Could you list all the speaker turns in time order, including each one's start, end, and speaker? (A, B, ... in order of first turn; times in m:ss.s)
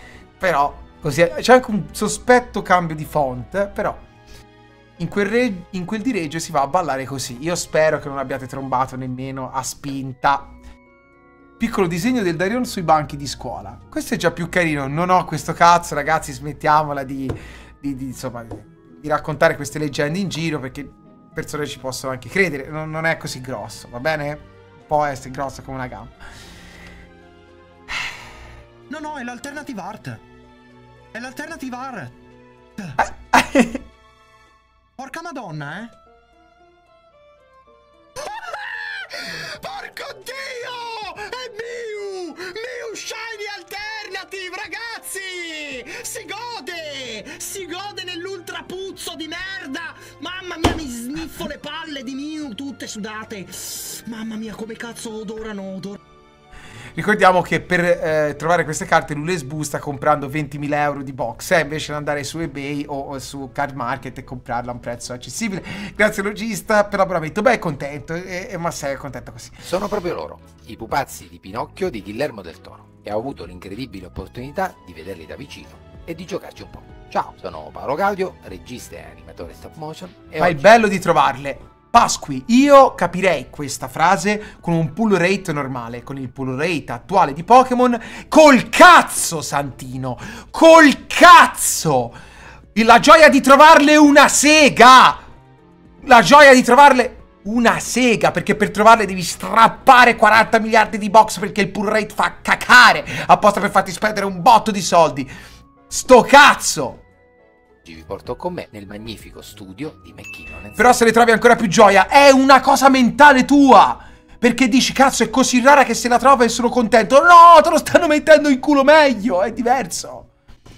0:00.4-0:04.0 A
0:05.0-0:10.6 A
0:11.6-0:26.2 A
0:28.9-0:30.2 B
0:31.1-0:32.1 B
0:33.0-0:33.8 A
0:35.0-0:35.9 B
0:38.3-0:38.5 B
0:39.4-0:56.0 B
0:57.0-1:09.6 A
1:09.7-1:20.7 C
1:20.4-1:32.2 A
1:32.7-1:35.2 A
1:36.0-1:45.3 A
1:45.9-1:47.0 A
1:47.8-1:51.0 C
1:50.8-2:00.3 A